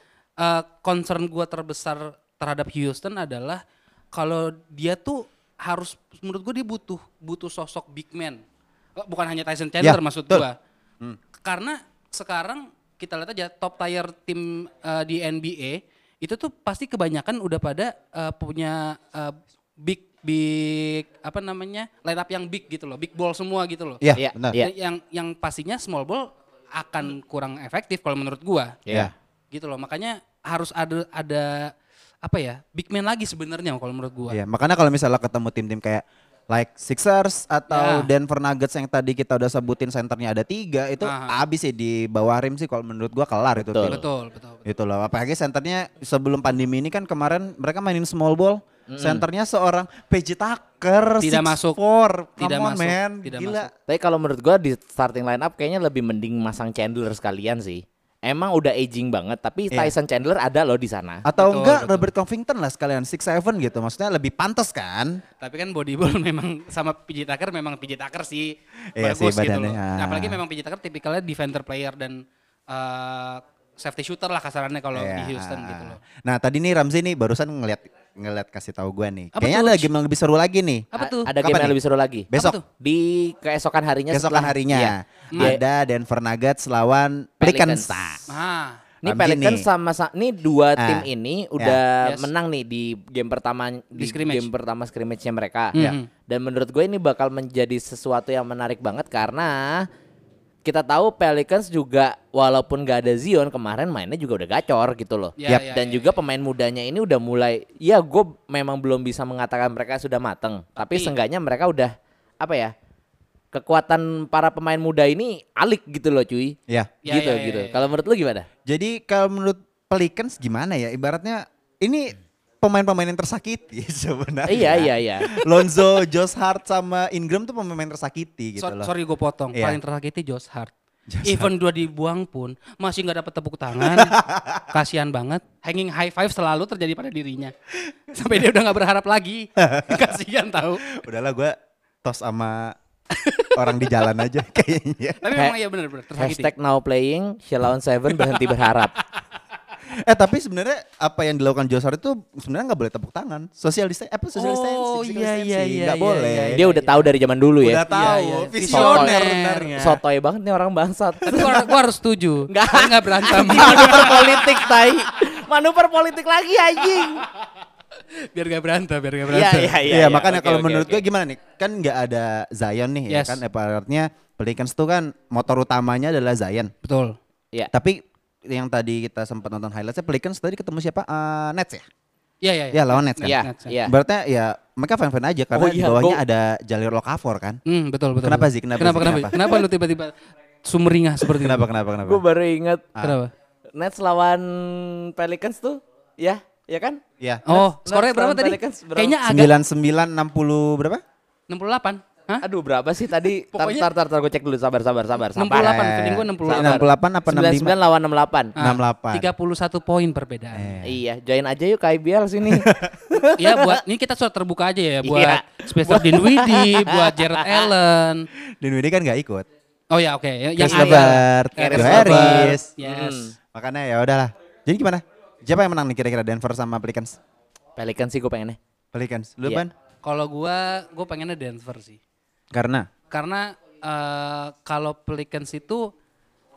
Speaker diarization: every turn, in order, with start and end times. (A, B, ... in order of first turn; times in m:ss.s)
0:00.4-0:03.6 A
0:04.1-0:08.4 A
0:09.0-0:10.6 A
0:09.8-0:10.4 B
0:11.4-0:28.8 A
0:24.0-0:24.6 B
0:24.2-0:24.7 C
0:28.9-0:29.1 C
0:29.5-0:31.7 A
0:32.2-0:34.4 A
0:34.3-0:44.0 B
0:37.7-0:38.1 A
0:41.0-0:41.4 A
0:43.6-0:44.0 C
0:43.8-0:44.6 A
0:44.6-0:53.7 B
0:48.9-0:49.2 C
0:51.2-0:51.8 A
0:52.4-0:53.7 A
0:53.9-1:01.2 C
1:01.2-1:05.2 B
1:01.4-1:02.1 A
1:05.4-1:16.0 A
1:09.0-1:10.4 B
1:14.9-1:21.8 B
1:19.3-1:19.9 A
1:20.9-1:21.3 A
1:21.0-1:25.6 C
1:22.3-1:22.6 B
1:22.3-1:22.6 A
1:24.1-1:28.2 B
1:27.4-1:28.0 C
1:28.3-1:28.8 A
1:29.0-1:39.9 C
1:29.0-1:29.6 B
1:30.8-1:31.1 B
1:32.0-1:32.3 A
1:34.0-1:34.5 A
1:35.7-1:36.1 A
1:40.6-1:52.7 C
1:45.4-1:46.1 A
1:50.8-1:51.1 A
1:53.5-1:56.6 C
1:56.7-1:56.9 B
1:57.0-1:57.8 A
1:57.1-1:58.5 C
1:58.6-2:08.9 B
2:04.5-2:05.3 C
2:08.6-2:10.7 A
2:11.1-2:11.5 B
2:11.2-2:14.2 A
2:13.8-2:14.7 B
2:14.7-2:17.5 A
2:18.1-2:20.9 A
2:19.6-2:20.1 B
2:20.8-2:22.8 B
2:23.2-2:23.8 A
2:23.5-2:25.4 B
2:25.2-2:26.5 A
2:26.2-2:28.9 C
2:28.2-2:28.5 A
2:29.9-2:36.6 B
2:34.4-2:37.1 A
2:36.5-2:37.8 C
2:37.6-2:40.0 B
2:37.9-2:39.8 A
2:38.7-2:39.2 C
2:39.8-2:41.6 C
2:41.2-2:41.5 B
2:41.3-2:44.6 A
2:42.5-2:47.2 C
2:43.6-2:44.2 B
2:48.3-2:49.8 A
2:49.3-2:51.0 C
2:49.8-2:56.7 B
2:53.1-2:53.4 A
2:56.8-2:57.2 A
2:57.7-3:01.8 B
3:02.4-3:03.7 A
3:02.7-3:07.6 B
3:03.2-3:03.9 C
3:05.5-3:06.2 C
3:07.6-3:11.6 A
3:08.2-3:09.4 B
3:11.2-3:12.2 B
3:12.0-3:12.8 C
3:13.0-3:13.3 A
3:13.8-3:19.2 C
3:17.2-3:17.4 B
3:17.4-3:19.5 A
3:19.2-3:21.0 B
3:21.5-3:22.4 A
3:22.4-3:25.8 C
3:23.5-3:23.9 A
3:25.4-3:26.8 A
3:25.5-3:27.7 B
3:26.4-3:28.6 C
3:28.6-3:29.3 B
3:28.6-3:30.8 A
3:30.5-3:30.9 B
3:30.8-3:33.8 C
3:32.4-3:32.9 B
3:33.4-3:38.3 A
3:35.0-3:37.7 C
3:38.6-3:39.5 B
3:39.9-3:43.3 A
3:40.6-3:42.7 B
3:40.6-3:43.3 C
3:43.5-3:47.2 B
3:47.8-3:48.6 C
3:48.9-3:49.7 B
3:50.0-3:52.0 A
3:52.5-3:52.9 B
3:53.1-3:55.9 A